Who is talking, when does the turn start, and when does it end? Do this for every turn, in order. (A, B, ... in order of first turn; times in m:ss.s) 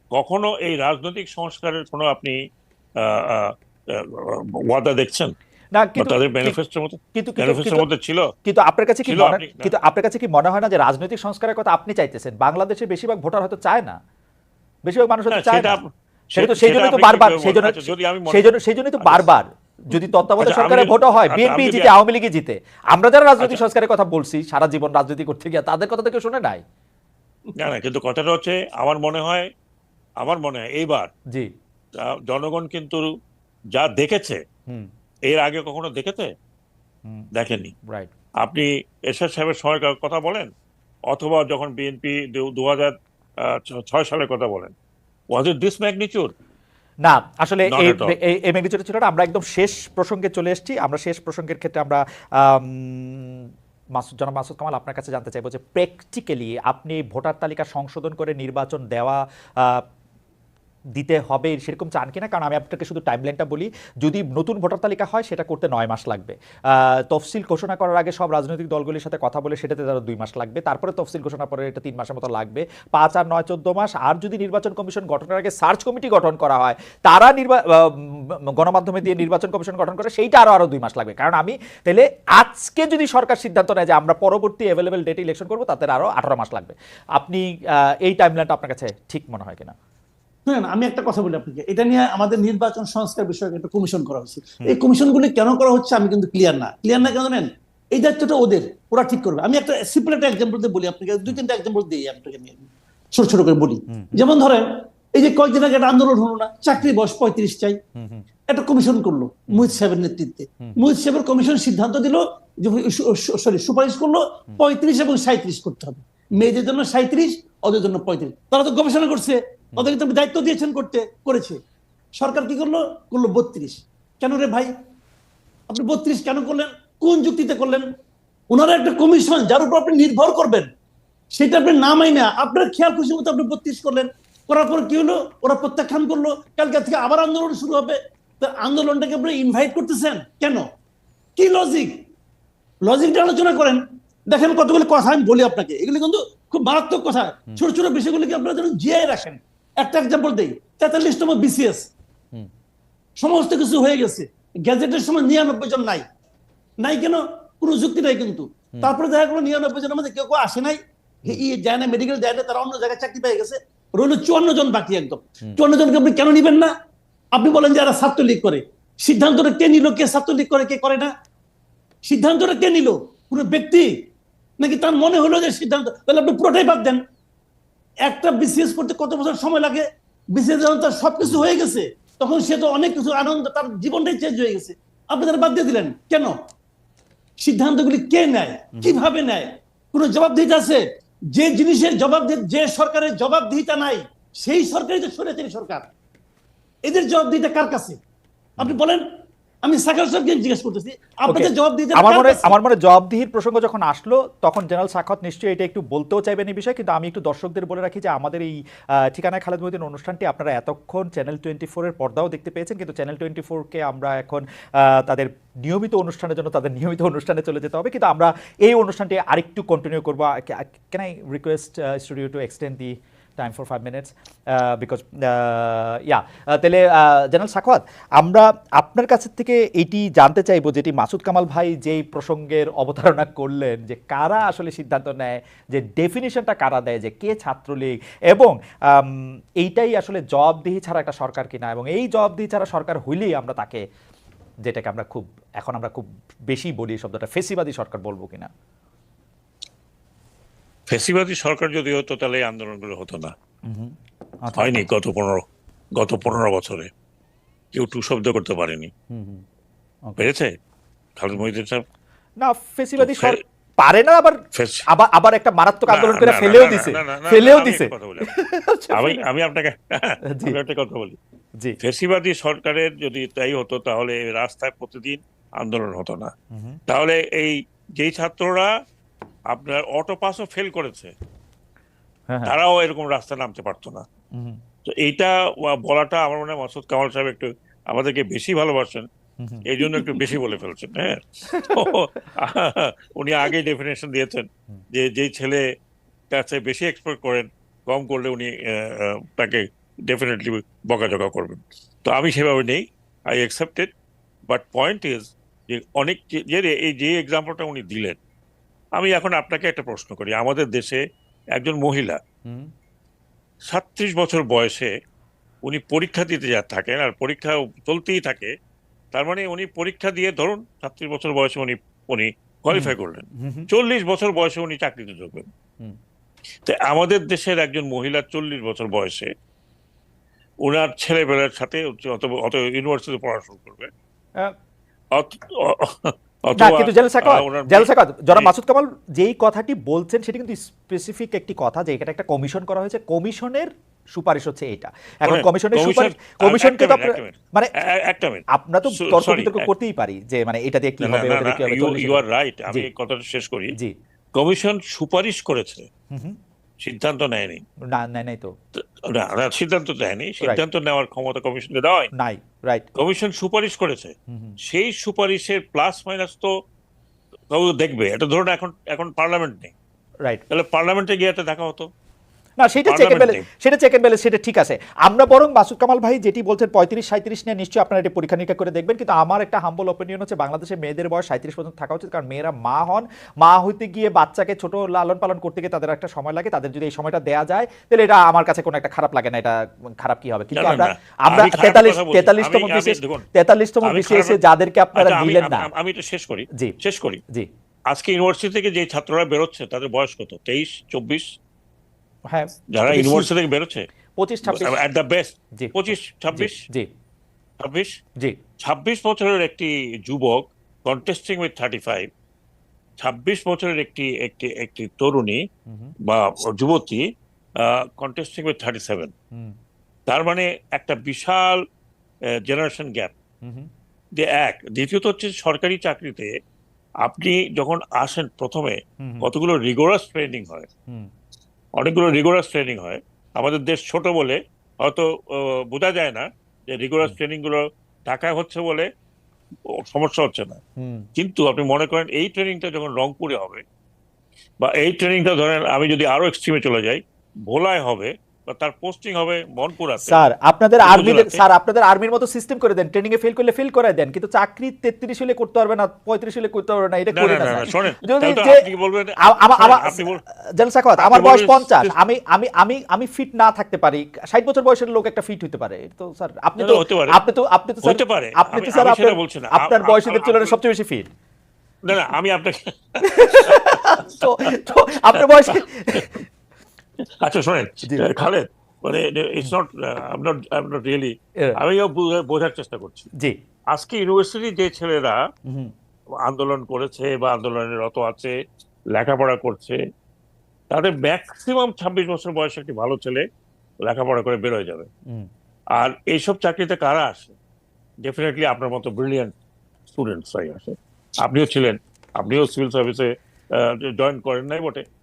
0:00.1-0:02.4 A
0:03.0-0:05.3 A
0:05.7-0:06.6 B
0:06.0-0:08.3 A
0:07.1-0:07.8 B
0:08.4-0:14.0 B
0:09.0-0:09.7 A
0:14.8-0:15.8 B
0:15.3-0:19.3 A
0:16.3-0:26.6 B
0:19.9-0:21.9 A
0:27.6-0:29.5 A
0:30.2-0:31.1 A
0:32.0-0:33.1 A
0:33.7-0:34.4 A
0:35.3-0:36.3 A
0:37.3-0:37.7 A
0:38.4-0:40.5 A
0:41.1-0:44.7 A
0:45.3-0:46.3 A
0:47.0-0:59.8 B
0:47.7-0:48.1 A
1:00.9-1:29.7 B
1:30.4-1:47.8 C
1:43.9-1:44.2 B
1:48.0-1:48.2 B
1:48.5-2:01.6 C
1:49.5-1:49.8 B
2:02.2-2:04.7 C
2:05.7-2:07.8 C
2:08.5-2:10.7 C
2:11.3-2:20.6 C
2:21.4-2:21.9 C
2:22.8-2:31.9 C
2:33.2-2:36.0 C
2:36.8-2:46.7 C
2:47.3-2:51.1 C
2:52.0-2:53.9 C
2:54.6-2:57.0 C
2:58.0-3:06.3 C
3:07.4-3:15.9 C
3:08.7-3:09.0 B
3:16.9-3:18.0 C
3:18.6-3:19.0 C
3:19.6-3:22.5 C
3:21.3-4:03.8 B
4:04.6-4:08.5 B
4:10.9-4:13.3 A
4:13.6-4:14.9 B
4:14.6-4:15.4 A
4:16.0-4:16.9 A
4:17.7-4:18.9 A
4:19.1-4:19.4 B
4:20.2-4:20.5 A
4:21.2-4:21.8 A
4:22.4-4:29.2 B
4:23.0-4:23.4 A
4:24.5-4:24.8 A
4:25.9-4:28.3 A
4:28.9-4:31.2 A
4:31.8-4:36.3 A
4:36.5-4:36.8 B
4:36.9-4:38.7 A
4:39.5-4:41.1 A
4:42.3-4:42.5 B
4:42.4-4:44.0 A
4:44.3-4:44.6 B
4:44.8-4:49.1 A
4:49.4-4:50.3 B
4:49.6-4:55.6 A
4:51.5-4:51.9 B
4:56.3-5:03.9 A
5:04.5-5:08.2 A
5:09.0-5:11.0 A
5:11.5-5:12.2 A
5:12.4-5:12.7 B
5:13.7-5:14.9 A
5:15.6-5:18.5 A
5:19.1-5:25.5 A
5:22.7-5:23.7 B
5:26.6-5:29.3 A
5:30.6-5:33.9 A
5:35.1-5:38.5 A
5:36.6-5:47.7 B
5:45.2-5:49.7 A
5:48.5-5:52.9 B
5:51.0-5:53.7 A
5:54.3-5:55.9 A
5:56.1-5:56.4 B
5:56.8-5:57.6 A
5:57.9-5:58.5 B
5:58.7-6:02.1 A
6:02.1-6:02.8 B
6:02.9-6:06.5 A
6:04.3-6:04.6 B
6:07.5-6:09.7 A
6:10.5-6:11.9 A
6:12.6-6:35.7 B
6:12.9-6:13.4 A
6:30.5-6:33.2 A
6:33.8-6:34.4 A
6:35.0-6:37.2 A
6:37.9-6:41.2 A
6:42.3-6:43.3 B
6:42.7-6:43.8 A
6:44.2-6:44.8 B
6:44.5-6:46.6 A
6:45.6-6:46.9 B
6:47.6-6:48.0 A
6:48.6-6:52.1 A
6:53.0-6:55.4 A
6:55.7-6:55.9 B
6:56.0-6:57.0 A
6:57.6-6:59.1 A
7:00.1-7:01.6 A
7:02.4-7:03.1 A
7:03.4-7:03.7 B
7:04.1-7:06.3 A
7:07.0-7:10.7 A
7:09.0-7:09.3 B
7:11.8-7:18.9 A
7:19.8-7:20.6 A
7:20.8-7:21.1 B
7:21.2-7:23.6 A
7:24.6-7:30.2 A
7:30.0-7:38.6 B
7:30.8-7:31.4 A
7:37.1-7:40.2 A
7:39.2-7:51.1 B
7:41.0-7:41.9 A
7:46.6-7:47.2 A
7:47.8-7:50.6 A
7:51.8-7:56.1 A
7:53.0-7:56.2 B
7:57.2-8:03.1 A
8:03.7-8:05.2 A
8:05.4-8:05.7 B
8:06.2-8:08.3 A
8:08.9-8:09.8 A
8:10.7-8:13.2 A
8:13.8-8:14.9 A
8:15.7-8:17.3 A
8:18.0-8:19.3 A
8:19.9-8:24.8 A